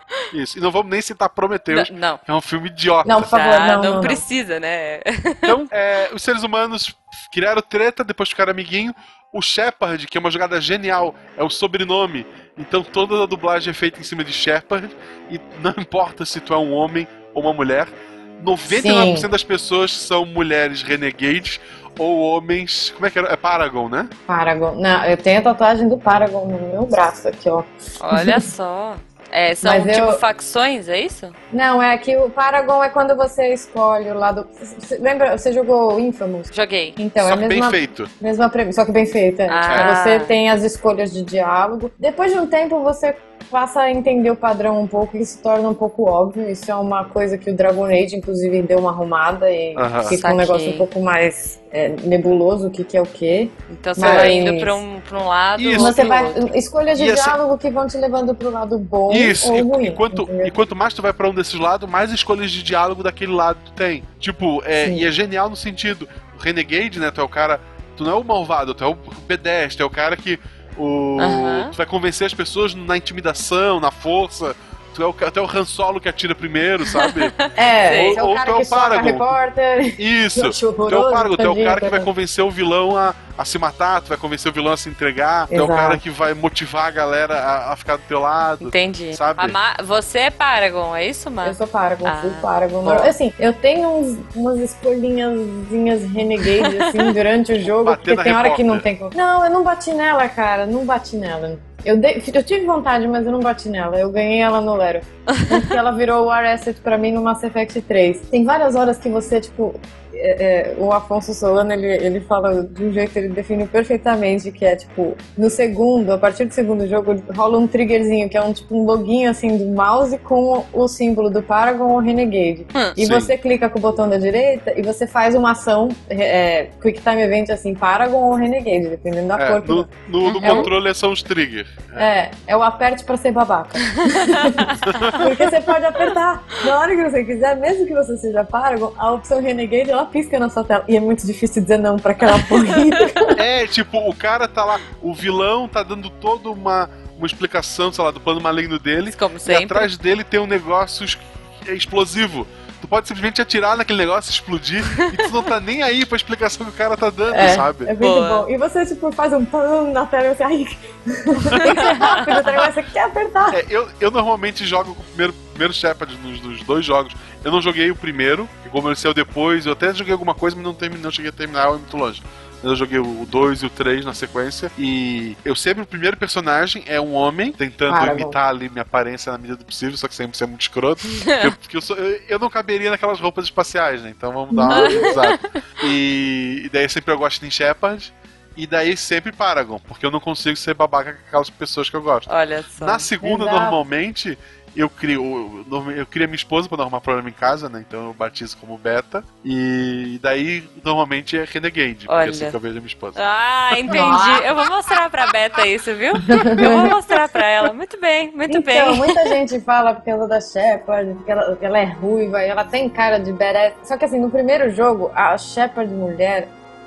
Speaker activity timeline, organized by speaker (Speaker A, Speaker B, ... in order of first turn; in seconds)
Speaker A: 0.3-3.3, 5.5-24.1, 37.2-38.1, 39.7-40.0, 49.8-50.2, 54.0-54.3, 55.6-56.1, 57.0-57.4, 59.1-79.4, 80.0-89.6, 92.8-93.1, 97.6-98.9, 123.0-123.3, 129.4-132.1, 134.8-135.3, 143.4-157.9, 161.5-162.5, 163.5-203.2, 203.7-204.2, 206.6-207.4
Speaker B: 1.7-2.2, 3.3-5.6, 28.0-31.4, 36.5-37.0, 39.5-40.4, 50.1-50.9, 53.7-56.5, 71.2-71.7, 76.9-78.2, 88.6-92.5, 96.6-97.1, 130.2-130.7, 134.0-135.2, 142.3-143.1, 149.1-149.9, 158.0-158.5, 161.6-162.3, 181.1-181.5, 184.7-185.6, 192.3-193.1, 202.1-202.6, 203.2-209.2
Speaker C: 3.0-4.2, 18.7-19.3, 24.3-28.5, 29.6-30.2, 31.5-54.8, 55.8-60.5, 64.8-65.1, 77.6-82.1, 85.5-86.0, 91.4-130.7, 132.0-143.4, 157.3-163.6, 177.9-178.4, 184.5-185.1, 193.2-193.8, 203.9-204.5, 206.2-206.9, 208.5-216.5